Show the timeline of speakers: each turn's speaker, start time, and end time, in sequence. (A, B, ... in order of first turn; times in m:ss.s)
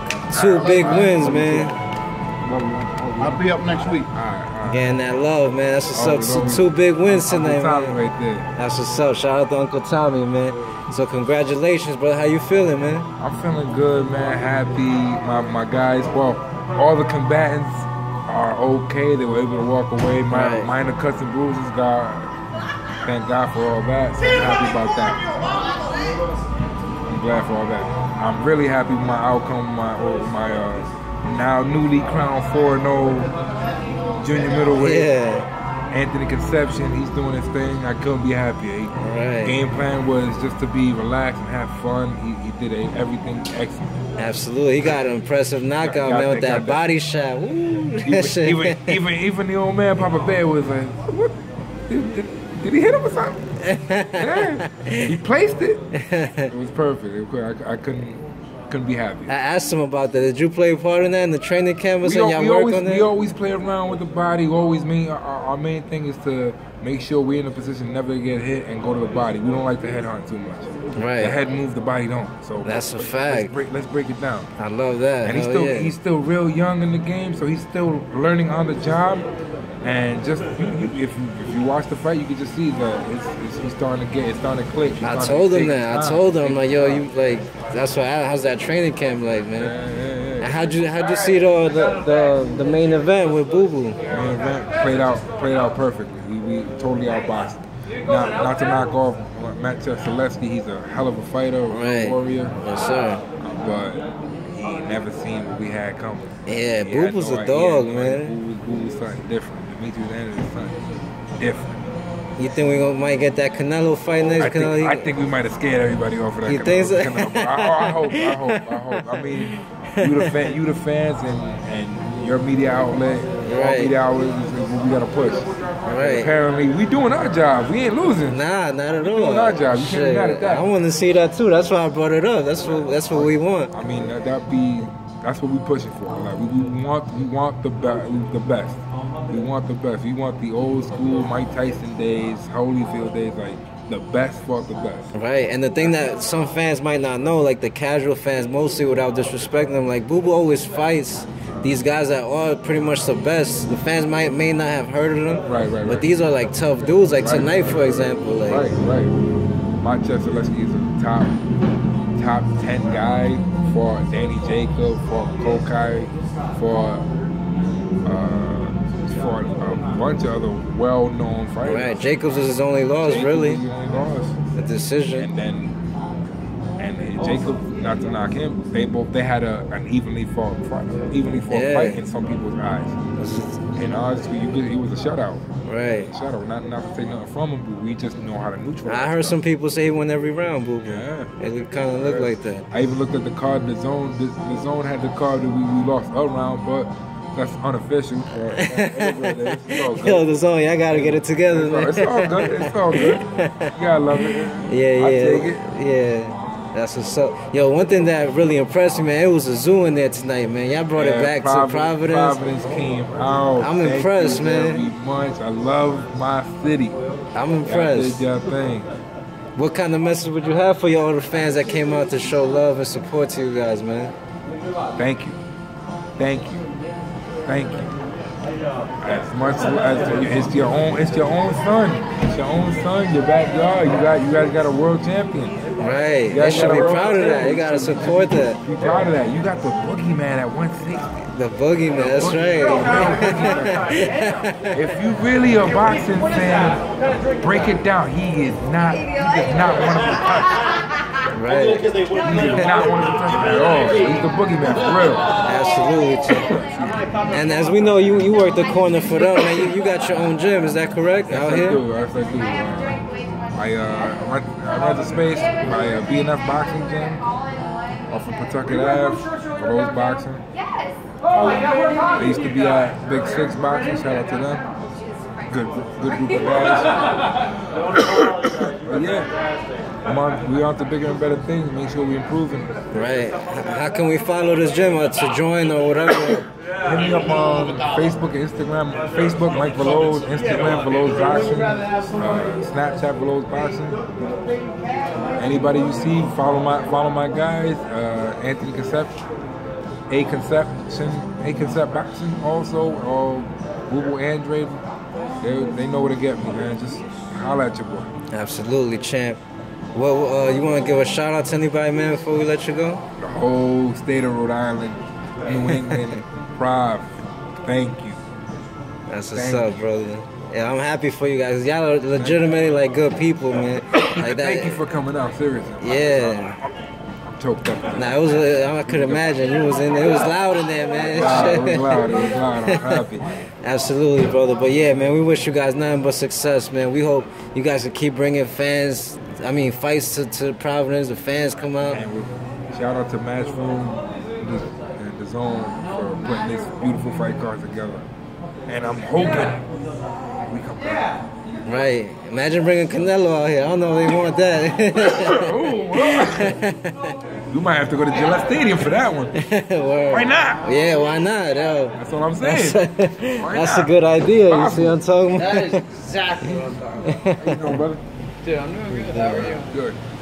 0:00.3-0:01.8 A
0:00.3-0:01.6 B
0:00.8-0:01.4 C
0:02.5-0:04.0 C
0:04.1-0:04.9 B
0:04.6-0:08.0 A
0:05.9-0:08.5 B
0:08.6-0:13.1 A
0:13.2-0:22.3 B
0:20.3-0:20.7 A
0:23.0-0:25.4 B
0:27.1-0:33.3 B
0:34.2-0:35.1 B
0:34.8-0:35.5 A
0:35.9-0:38.9 B
0:39.0-0:39.6 A
0:39.4-0:44.0 B
0:44.2-0:48.9 A
0:45.8-0:46.8 B
0:48.0-0:53.5 B
0:53.6-0:55.1 A
0:54.2-0:55.8 B
0:56.0-0:56.5 A
0:56.5-0:59.4 B
0:59.3-1:03.1 A
1:02.0-1:14.5 B
1:11.0-1:11.4 A
1:12.6-1:13.6 A
1:14.6-1:15.9 A
1:15.2-1:19.3 B
1:19.8-1:27.0 B
1:25.0-1:29.7 A
1:29.6-1:30.7 B
1:30.4-1:34.0 A
1:34.1-1:42.6 B
1:41.7-1:43.2 A
1:43.4-1:50.8 B
1:46.4-1:48.3 A
1:51.4-1:51.8 B
1:52.4-1:55.1 A
1:54.4-2:08.4 B
1:56.4-1:59.0 A
1:59.6-2:00.3 A
2:03.4-2:03.9 A
2:05.9-2:06.3 A
2:08.3-2:13.7 A
2:09.0-2:10.7 B
2:13.2-2:25.1 B
2:25.1-2:38.7 A
2:35.4-2:36.1 B
2:37.1-2:39.1 B
2:39.8-2:41.4 B
2:42.2-2:47.1 B
2:48.1-2:52.1 B
2:51.6-2:53.6 A
2:53.0-2:54.4 B
2:54.5-2:55.3 A
2:55.1-2:55.8 B
2:56.8-3:03.0 B
3:01.5-3:02.0 A
3:03.2-3:03.6 A
3:03.8-3:05.4 B
3:05.6-3:06.1 A
3:06.1-3:09.4 B
3:08.8-3:12.7 A
3:10.8-3:11.3 B
3:12.0-3:20.3 B
3:18.5-3:32.4 A
3:20.9-3:25.6 B
3:30.9-3:37.0 B
3:33.6-3:34.8 A
3:37.3-3:38.2 A
3:37.6-3:38.9 B
3:39.6-3:44.1 A
3:45.0-3:45.4 B
3:46.2-3:46.7 B
3:47.5-3:48.0 B
3:49.0-3:55.6 B
3:55.8-3:58.6 A
3:56.3-4:01.2 B
4:01.3-4:04.8 A
4:01.9-4:04.1 B
4:04.7-4:06.8 B
4:07.4-4:10.6 B
4:11.3-4:11.9 A
4:12.1-4:15.3 B
4:15.4-4:16.6 A
4:16.3-4:17.0 B
4:17.3-4:21.8 A
4:21.3-4:27.2 B
4:28.1-4:30.4 B
4:32.2-4:34.6 B
4:35.5-4:37.0 B
4:37.9-4:39.3 B
4:40.0-4:42.8 B
4:42.9-4:46.5 A
4:46.8-4:54.0 B
4:55.4-4:59.2 B
5:00.1-5:04.8 B
5:05.4-5:08.1 B
5:08.3-5:09.4 A
5:09.9-5:13.0 A
5:13.2-5:18.2 B
5:15.7-5:16.2 A
5:19.1-5:24.8 A
5:19.3-5:19.8 B
5:22.2-5:22.4 B
5:23.9-5:26.6 B
5:25.8-5:26.6 A
5:27.4-5:29.2 B
5:28.0-5:33.0 A
5:31.1-5:33.3 B
5:33.6-5:42.0 A
5:41.8-5:48.1 B
5:48.7-5:49.6 B
5:50.5-5:51.1 B
5:51.7-5:57.1 A
5:55.0-5:56.6 B
5:57.5-5:59.4 B
5:59.4-6:05.9 A
6:00.1-6:00.6 B
6:02.0-6:02.8 B
6:03.4-6:05.0 B
6:05.4-6:07.1 D
6:06.4-6:07.8 A
6:07.4-6:08.0 B
6:08.4-6:09.7 D
6:08.9-6:09.5 A
6:09.1-6:10.0 B